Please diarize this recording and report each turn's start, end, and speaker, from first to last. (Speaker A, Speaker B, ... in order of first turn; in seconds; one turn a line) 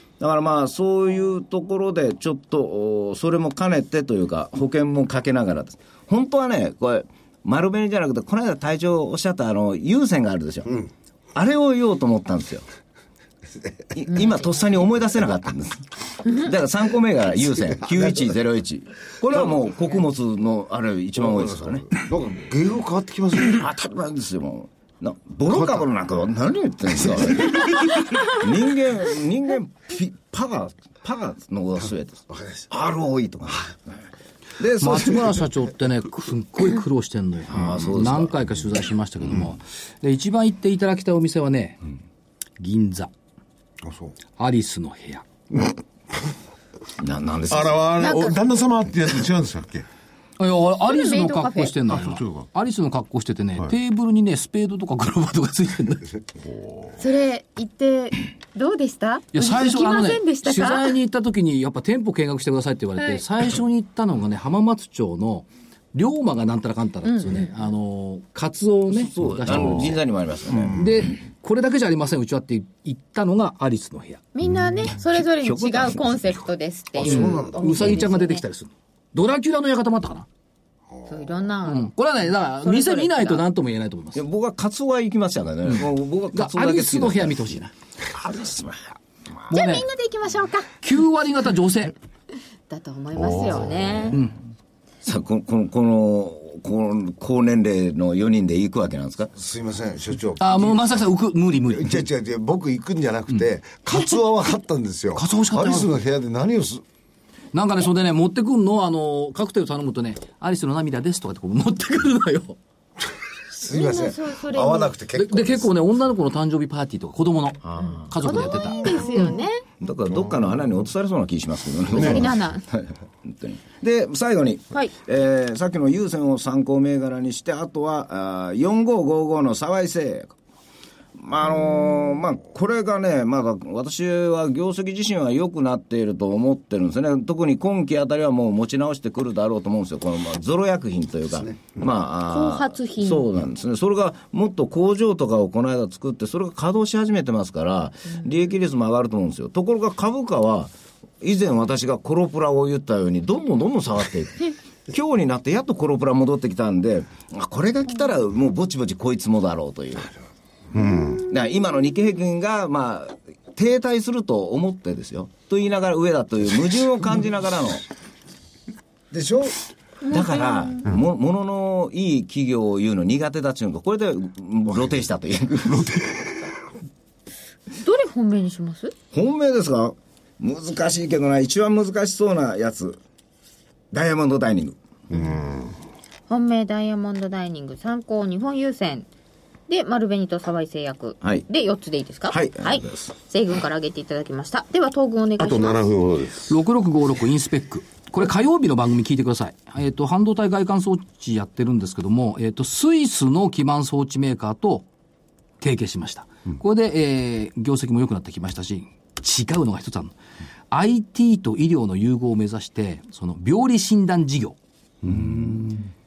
Speaker A: 0.2-10.8
Speaker A: 11.3-12.6
Speaker A: 13.9-21.9
Speaker B: 21.2-23.6
Speaker A: 23.4-34.0
Speaker B: 25.5-25.8
Speaker B: 32.3-32.6
Speaker A: 34.6-35.4
Speaker C: 34.8-41.8
Speaker A: 37.5-38.5
Speaker C: 42.6-43.1
Speaker C: 44.4-45.2
Speaker A: 47.0-47.9
Speaker D: 47.5-49.9
Speaker E: 48.0-48.4
Speaker C: 50.4-56.1
Speaker E: 50.8-51.8
Speaker D: 51.9-52.5
Speaker D: 56.4-56.9
Speaker E: 57.0-61.0
Speaker C: 59.3-70.0
Speaker E: 63.0-63.2
Speaker E: 67.0-67.5
Speaker A: 68.9-70.8
Speaker D: 69.5-69.9
Speaker C: 70.7-74.2
Speaker E: 74.3-78.4
Speaker A: 75.2-76.4
Speaker C: 77.0-80.3
Speaker B: 77.0-77.6
Speaker E: 81.1-81.9
Speaker C: 81.6-84.2
Speaker E: 82.5-83.4
Speaker A: 84.1-87.4
Speaker C: 86.3-87.7
Speaker A: 88.1-89.5
Speaker C: 89.5-89.9
Speaker E: 89.5-90.8
Speaker C: 90.8-91.9
Speaker E: 92.7-94.2
Speaker D: 93.1-94.2
Speaker C: 94.1-94.3
Speaker A: 95.0-99.3
Speaker B: 99.3-101.0
Speaker C: 100.4-102.0
Speaker B: 101.7-106.8
Speaker C: 105.1-105.9
Speaker C: 107.5-112.6
Speaker B: 113.6-115.7
Speaker E: 113.7-114.9
Speaker C: 115.2-118.8
Speaker A: 117.6-130.3
Speaker E: 118.1-119.6
Speaker E: 121.9-122.6
Speaker A: 131.2-160.1
Speaker E: 142.3-143.3
Speaker D: 160.7-161.2
Speaker A: 161.3-167.8
Speaker B: 169.1-169.5
Speaker E: 170.0-170.9
Speaker A: 170.1-175.9
Speaker D: 175.7-176.4
Speaker E: 177.8-178.9
Speaker A: 179.1-183.0
Speaker A: 183.9-184.8
Speaker D: 185.1-185.7
Speaker E: 186.3-189.1
Speaker E: 189.7-195.8
Speaker A: 192.3-193.1
Speaker D: 195.4-196.5
Speaker C: 196.5-204.8
Speaker C: 205.6-210.1
Speaker C: 210.7-214.6
Speaker D: 215.0-215.7